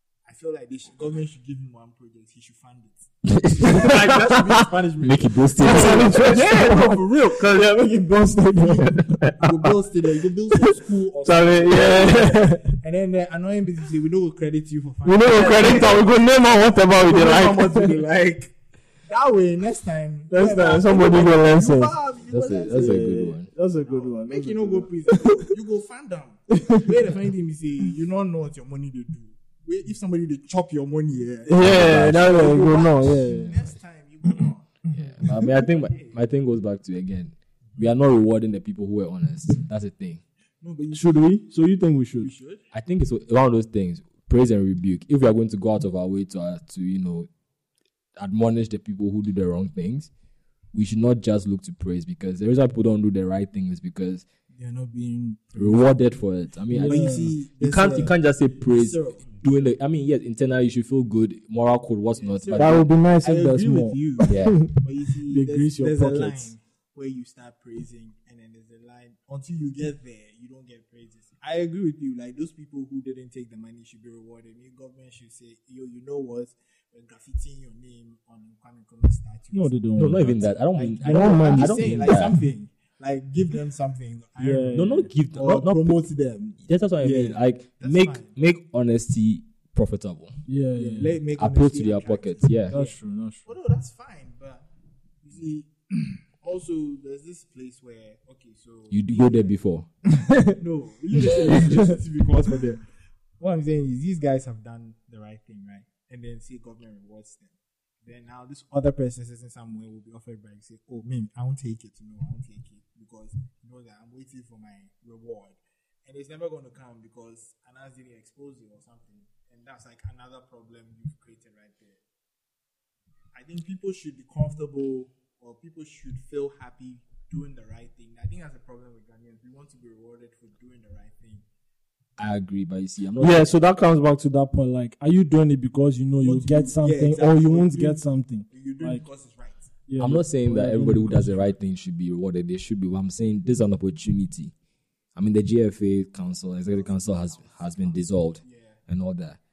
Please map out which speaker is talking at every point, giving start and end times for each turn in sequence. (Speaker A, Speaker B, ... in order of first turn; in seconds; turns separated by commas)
Speaker A: 0.2-7.7, Speaker B: 3.2-6.5, Speaker C: 5.6-9.4, Speaker A: 8.6-16.1, Speaker C: 10.5-12.8, Speaker C: 15.0-17.9, Speaker A: 16.9-18.5, Speaker A: 19.1-23.2, Speaker C: 20.3-21.9, Speaker B: 22.3-23.5, Speaker C: 22.7-25.5, Speaker A: 23.8-36.1, Speaker C: 26.5-26.9, Speaker C: 31.5-33.6, Speaker B: 31.6-33.6, Speaker B: 34.9-40.2, Speaker C: 35.2-35.5, Speaker A: 40.6-41.3, Speaker C: 40.9-42.3, Speaker A: 42.2-42.6, Speaker B: 42.7-47.3, Speaker B: 48.2-50.1, Speaker B: 50.7-54.2, Speaker A: 54.5-55.9, Speaker B: 55.6-62.9, Speaker C: 56.7-57.3, Speaker A: 56.8-59.3, Speaker A: 62.2-88.3, Speaker C: 62.5-66.5, Speaker B: 64.2-64.6, Speaker C: 79.5-80.4, Speaker B: 80.0-82.4, Speaker C: 81.0-81.9, Speaker C: 84.4-85.1, Speaker B: 84.7-86.0, Speaker B: 86.7-90.4, Speaker C: 90.5-91.2, Speaker A: 90.8-94.7, Speaker B: 91.3-92.7, Speaker C: 92.7-93.5, Speaker A: 95.2-99.5, Speaker B: 98.9-99.9, Speaker C: 100.1-100.5, Speaker A: 100.5-102.8, Speaker C: 101.5-101.9, Speaker A: 103.4-107.5, Speaker A: 108.0-122.0, Speaker A: 123.3-131.4, Speaker B: 132.2-133.5, Speaker C: 133.2-139.0, Speaker A: 136.2-139.7, Speaker C: 139.9-141.5, Speaker B: 140.0-144.5, Speaker B: 145.2-149.4, Speaker A: 146.7-148.8